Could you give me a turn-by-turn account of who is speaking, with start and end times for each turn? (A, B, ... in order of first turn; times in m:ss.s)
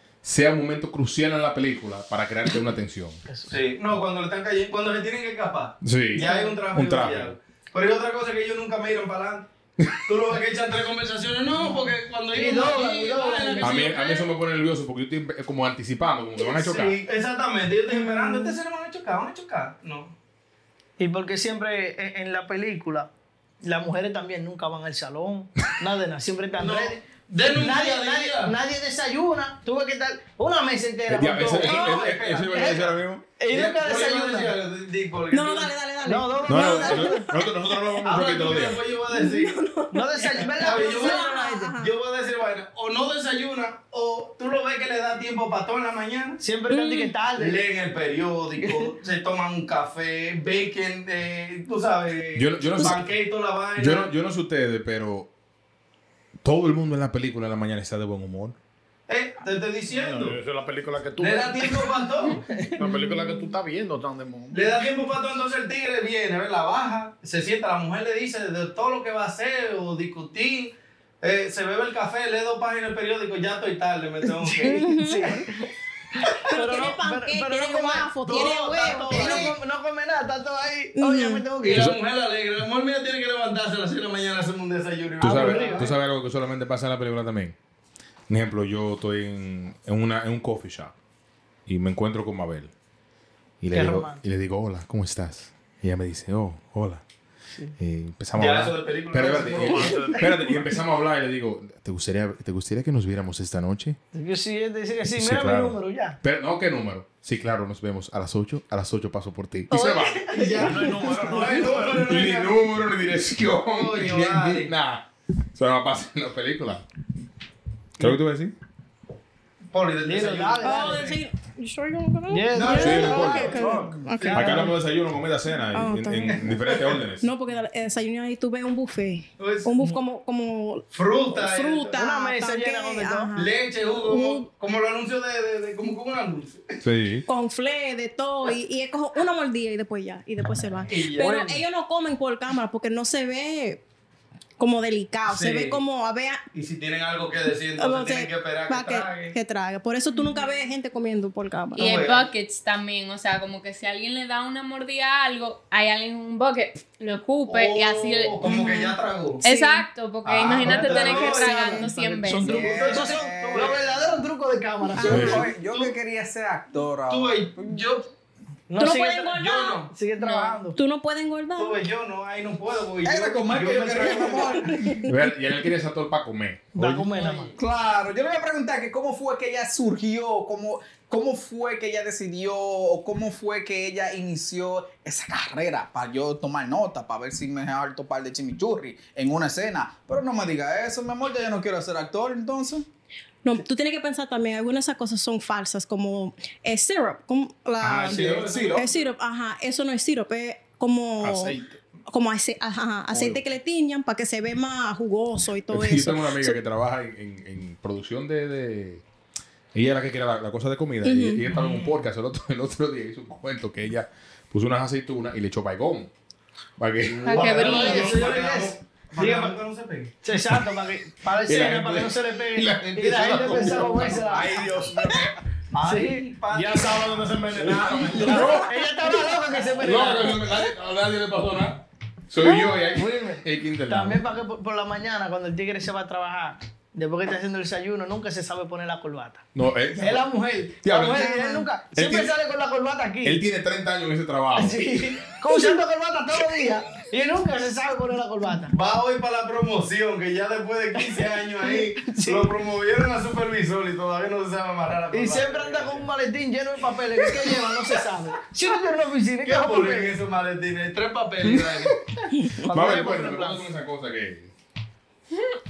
0:00.2-0:03.2 A
0:03.3-0:03.5 B
0:03.5-0:09.5 C
0:05.8-0:07.3 A
0:10.0-0:14.3 C
0:12.3-0:13.9 B
0:13.6-0:17.0 A
0:16.5-0:20.2 C
0:17.9-0:18.6 D
0:21.0-0:23.1 B
0:23.6-0:27.0 B
0:26.6-0:28.6 C
0:27.5-0:32.8 B
0:31.1-0:33.2 A
0:31.6-0:33.0 C
0:33.4-0:34.5 B
0:33.5-0:35.7 C
0:35.3-0:37.6 D
0:36.0-0:37.3 B
0:36.5-0:38.8 A
0:38.0-0:39.6 C
0:39.1-0:41.9 D
0:39.9-0:41.7 B
0:40.6-0:46.4 C
0:46.4-0:47.6 B
0:46.7-0:47.1 D
0:47.4-0:54.1 C
0:48.6-0:48.9 B
0:52.4-0:53.1 A
0:53.8-0:55.3 A
0:56.4-0:58.6 A
0:59.1-1:00.4 C
0:59.9-1:02.0 E
1:01.2-1:02.5 C
1:02.5-1:02.8 B
1:02.7-1:04.7 E
1:04.5-1:14.9 C
1:14.4-1:15.7 B
1:14.6-1:15.5 D
1:16.4-1:19.5 D
1:16.5-1:21.9 B
1:18.2-1:19.6 C
1:21.0-1:21.4 D
1:21.6-1:26.0 C
1:21.7-1:22.0 A
1:25.2-1:27.6 A
1:25.2-1:25.9 B
1:28.3-1:30.9 A
1:31.7-1:32.7 A
1:33.6-1:37.0 A
1:33.7-1:34.2 B
1:37.8-1:44.0 A
1:38.4-1:40.2 C
1:39.5-1:40.8 E
1:44.1-1:46.2 B
1:45.2-1:50.3 A
1:49.7-1:50.0 D
1:49.8-1:50.7 B
1:50.3-1:52.6 C
1:50.6-1:52.1 E
1:52.0-1:56.8 A
1:53.7-1:54.7 C
1:58.0-1:58.5 A
1:59.7-2:01.2 C
2:00.0-2:01.2 B
2:00.6-2:04.8 D
2:02.3-2:04.7 B
2:02.5-2:04.7 C
2:02.8-2:03.6 A
2:03.6-2:04.0 E
2:04.3-2:07.3 A
2:05.6-2:06.5 D
2:06.3-2:07.0 C
2:07.2-2:14.5 D
2:09.4-2:09.7 C
2:10.9-2:12.0 C
2:11.9-2:13.3 B
2:13.4-2:16.8 C
2:16.8-2:17.3 A
2:17.3-2:23.8 D
2:20.9-2:21.5 C
2:24.6-2:26.4 D
2:25.3-2:25.8 C
2:26.5-2:29.4 C
2:27.8-2:32.0 D
2:31.8-2:32.3 C
2:31.8-2:38.5 F
2:37.5-2:39.4 C
2:38.4-2:39.9 D
2:39.4-2:42.6 F
2:40.2-2:43.8 C
2:40.7-2:41.3 B
2:40.7-2:41.9 D
2:42.2-2:45.4 B
2:42.4-2:44.2 G
2:45.0-2:45.5 D
2:45.0-2:47.8 G
2:45.1-2:45.5 A
2:45.1-2:46.0 C
2:47.1-2:48.1 C
2:48.7-2:50.8 B
2:48.8-2:49.8 D
2:49.3-2:49.9 C
2:50.2-2:50.5 F
2:50.7-2:51.8 D
2:51.6-2:55.0 C
2:53.0-2:54.7 G
2:54.2-2:55.3 D
2:55.0-2:57.1 A
2:56.8-2:57.6 B
2:57.2-2:57.5 C
2:57.6-3:12.9 G
3:13.4-3:21.6 D
3:17.8-3:18.9 C
3:18.1-3:18.7 A
3:18.5-3:18.8 G
3:21.2-3:21.8 E
3:22.1-3:26.6 D
3:25.7-3:29.0 A
3:29.7-3:36.1 A
3:31.0-3:31.4 D
3:31.5-3:32.0 C
3:36.8-3:37.6 A
3:37.2-3:38.2 F
3:37.2-3:40.1 C
3:37.5-3:39.6 B
3:40.2-3:44.9 B
3:41.4-3:44.2 A
3:43.7-3:45.3 E
3:45.7-3:48.2 C
3:45.8-3:46.3 B
3:46.5-3:48.7 E
3:48.2-3:48.8 A
3:48.2-3:50.4 B
3:49.8-3:54.2 A
3:52.4-3:52.8 D
3:52.9-3:59.4 B
3:59.5-4:00.3 A
4:00.0-4:03.4 B
4:00.8-4:02.3 A
4:01.1-4:01.7 D
4:03.2-4:04.8 A
4:04.6-4:08.7 B
4:08.7-4:16.1 C
4:11.6-4:12.5 B
4:15.1-4:20.2 B
4:17.3-4:17.6 C
4:19.4-4:22.2 C
4:22.5-4:23.6 B
4:22.7-4:24.5 A